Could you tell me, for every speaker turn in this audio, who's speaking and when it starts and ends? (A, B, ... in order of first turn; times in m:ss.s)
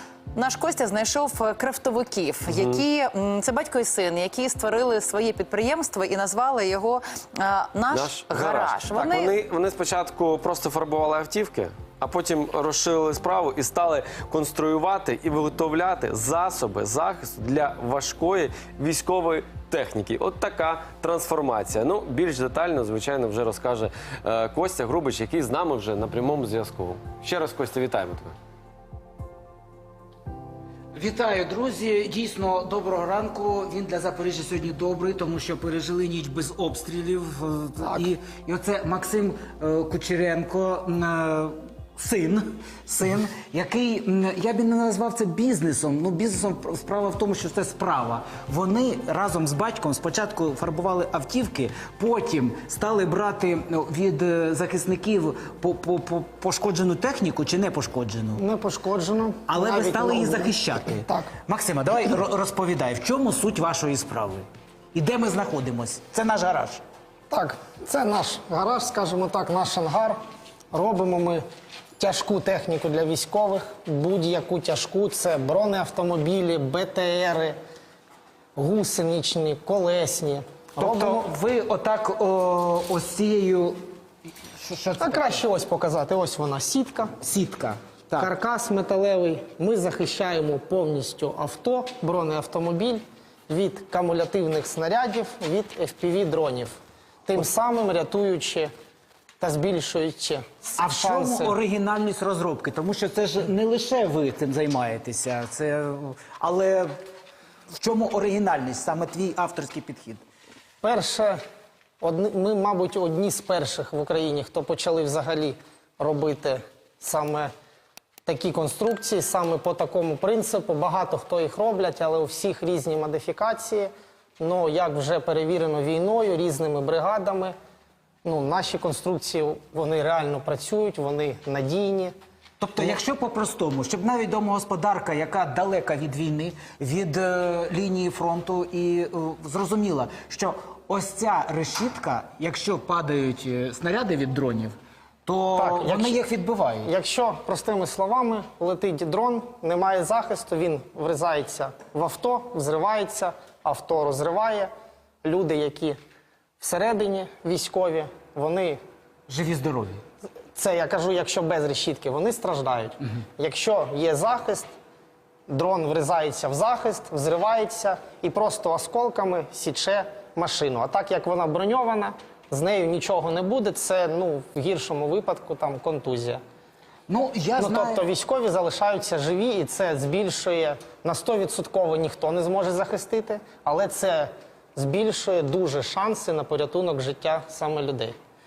0:00.3-0:09.4 A
0:02.5-0:02.8 B
0:07.9-0:28.4 B
0:31.0-0:58.4 C
0:58.4-1:01.3 D
0:59.5-1:06.8 C
1:07.3-1:10.2 D
1:10.7-1:11.4 D
1:12.0-1:17.6 D
1:18.6-1:21.2 D
1:20.8-1:23.8 C
1:24.6-1:25.4 C
1:25.0-1:27.1 D
1:27.2-1:28.3 C
1:28.2-1:38.7 D
1:39.4-1:41.6 D
1:40.8-1:47.0 C
1:47.7-1:50.2 C
1:50.8-1:51.4 D
1:52.0-1:57.5 D
1:58.3-2:07.5 D
2:08.2-2:12.1 D
2:12.6-2:24.8 C
2:25.3-2:26.9 C
2:25.6-2:26.2 D
2:26.8-2:34.7 D
2:35.2-2:36.0 D
2:36.6-2:38.8 D
2:39.3-2:40.0 C
2:40.6-2:44.7 D
2:45.5-2:56.4 D
2:57.1-2:58.0 C
2:57.6-3:08.2 D